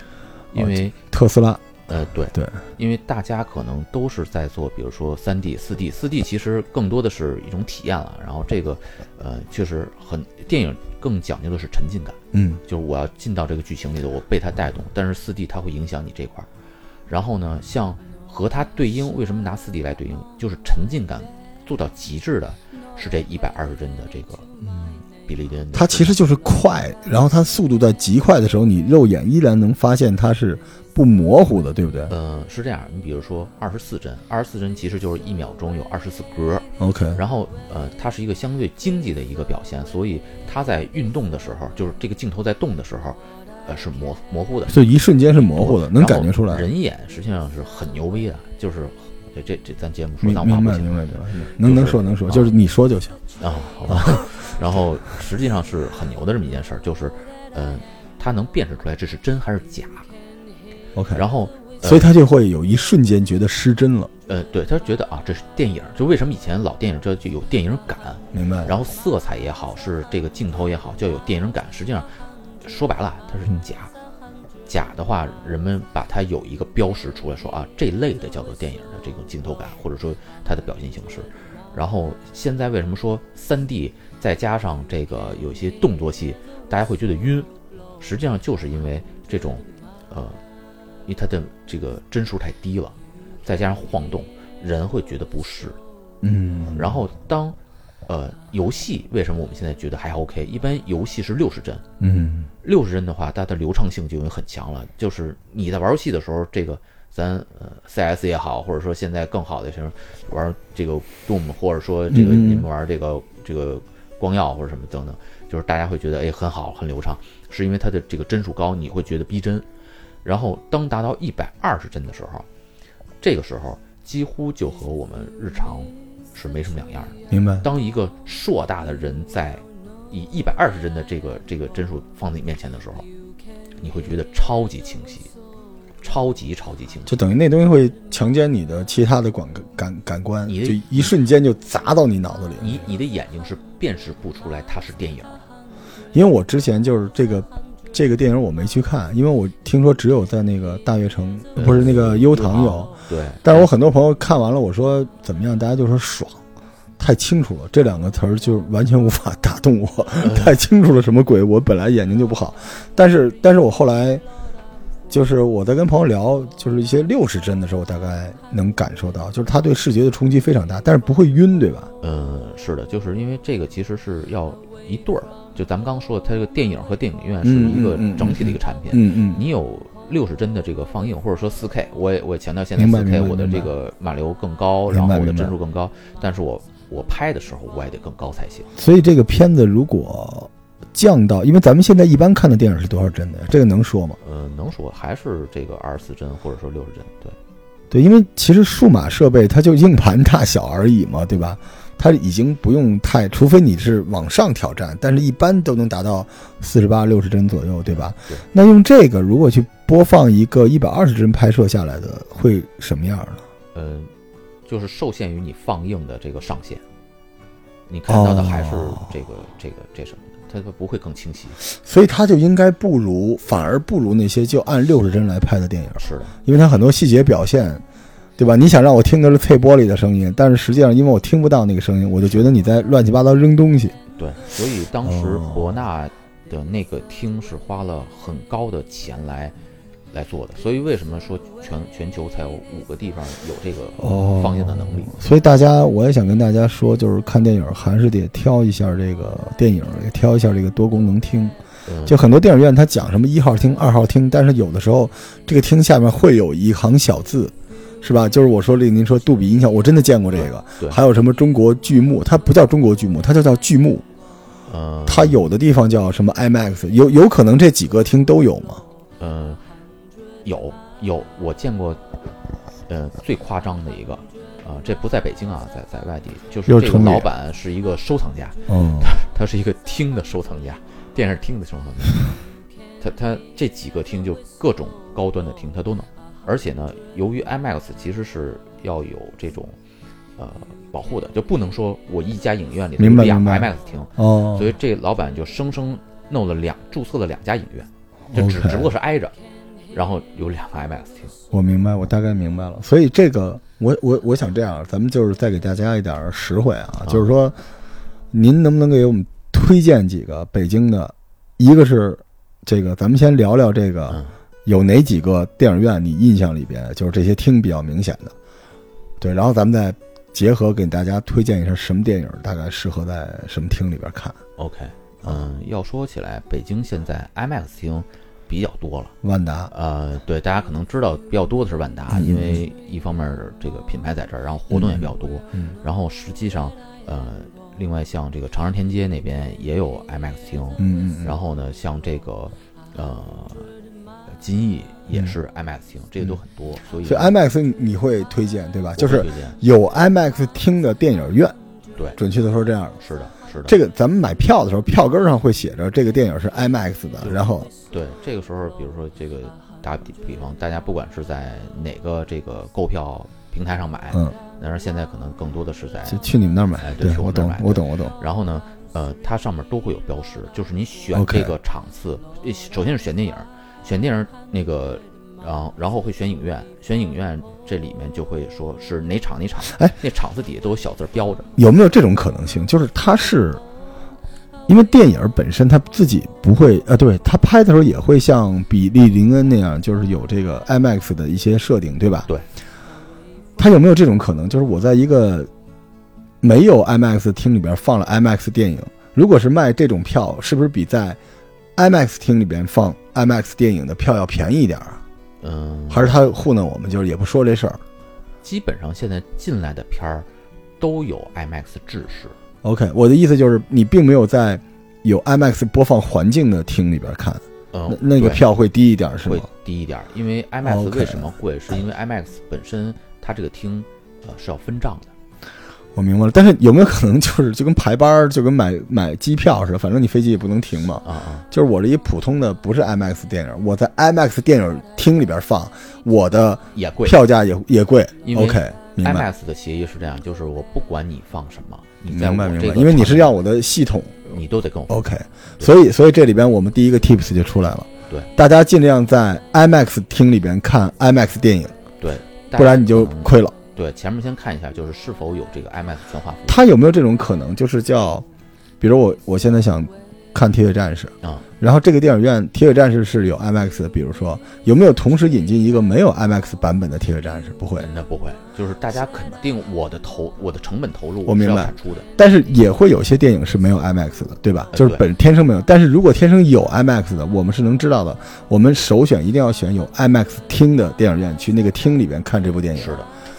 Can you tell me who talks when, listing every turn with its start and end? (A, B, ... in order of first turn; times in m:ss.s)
0:00.5-0:01.0 A
0:00.6-0:01.7 B
0:01.9-0:16.5 A
0:12.3-0:12.6 B
0:17.1-0:24.5 A
0:24.6-0:25.0 B
0:25.3-0:26.2 A
0:25.7-0:32.1 B
0:32.1-0:52.5 A
0:36.8-0:37.2 B
0:44.7-0:46.7 B
0:50.2-0:53.2 B
0:53.4-1:00.1 A
0:53.9-0:54.2 B
1:01.0-1:01.2 B
1:01.1-1:02.1 A
1:01.8-1:04.1 B
1:04.3-1:13.9 A
1:08.3-1:08.7 B
1:14.7-1:30.4 A
1:31.1-1:35.8 A
1:36.2-1:37.0 B
1:36.8-1:41.8 A
1:42.0-1:42.5 B
1:42.6-1:59.7 A
1:52.1-1:52.7 B
2:00.2-2:02.5 A
2:03.2-2:13.1 A
2:07.3-2:07.7 B
2:13.8-2:15.3 A
2:16.0-2:17.2 A
2:17.1-2:22.9 B
2:20.5-2:21.2 A
2:22.6-2:25.5 A
2:26.1-2:32.9 B
2:31.6-2:33.7 A
2:33.4-2:36.4 B
2:37.0-2:44.2 B
2:40.2-2:40.6 A
2:45.1-2:51.9 B
2:52.0-3:08.7 A
2:57.4-2:59.4 B
3:02.8-3:03.7 B
3:04.9-3:05.5 B
3:08.8-3:14.2 B
3:14.2-3:17.4 A
3:17.9-3:33.4 B
3:27.9-3:28.4 A
3:33.7-3:34.1 A
3:34.7-3:36.8 A
3:37.9-3:41.6 A
3:38.1-3:39.0 B
3:41.7-3:47.8 B
3:46.0-3:46.4 A
3:48.4-3:54.0 B
3:54.2-3:59.6 A
3:55.0-3:55.8 B
4:00.1-4:05.1 A
4:04.0-4:24.0 B
4:11.9-4:12.2 A
4:24.7-4:25.4 A
4:25.1-4:28.8 B
4:29.2-4:29.6 A
4:30.4-4:32.0 A
4:32.9-4:42.4 A
4:36.7-4:37.3 B
4:38.7-4:39.1 B
4:43.0-4:49.8 A
4:50.4-4:59.4 A
4:53.0-4:54.7 B
4:58.3-4:58.9 B
4:59.9-5:01.3 A
5:01.5-5:07.6 B
5:07.0-5:07.3 A
5:08.3-5:18.4 B
5:14.1-5:14.3 A
5:19.2-5:24.4 B
5:24.6-5:29.2 A
5:29.2-5:29.7 B
5:29.7-5:43.7 A
5:32.1-5:32.6 B
5:34.7-5:35.8 B
5:40.8-5:41.4 B
5:44.3-5:47.4 A
5:47.0-5:51.6 B
5:49.0-5:49.6 A
5:52.2-5:53.0 B
5:53.0-5:53.8 A
5:53.7-5:57.7 B
5:57.2-6:06.2 A
6:06.1-6:08.2 B
6:06.8-6:21.5 A
6:11.1-6:11.5 B
6:21.6-6:23.6 B
6:24.7-6:32.3 B
6:33.6-6:35.5 B
6:36.4-6:41.2 B
6:41.8-6:45.0 B
6:45.4-6:46.3 A
6:45.9-6:47.8 B
6:48.4-6:50.3 A
6:50.8-6:52.4 A
6:52.6-6:59.5 B
6:57.7-6:58.5 A
6:59.2-7:05.1 A
7:00.6-7:01.3 B
7:06.0-7:19.3 B
7:11.0-7:11.5 A
7:16.7-7:17.2 A
7:18.2-7:23.3 A
7:22.1-7:24.3 B
7:24.3-7:25.8 A
7:24.9-7:31.8 B
7:32.0-7:36.6 A
7:32.5-7:33.6 B
7:36.5-7:38.3 B
7:38.8-7:47.9 B
7:47.8-7:52.1 A
7:51.3-8:03.0 B
7:54.7-7:55.0 A
8:02.7-8:03.1 A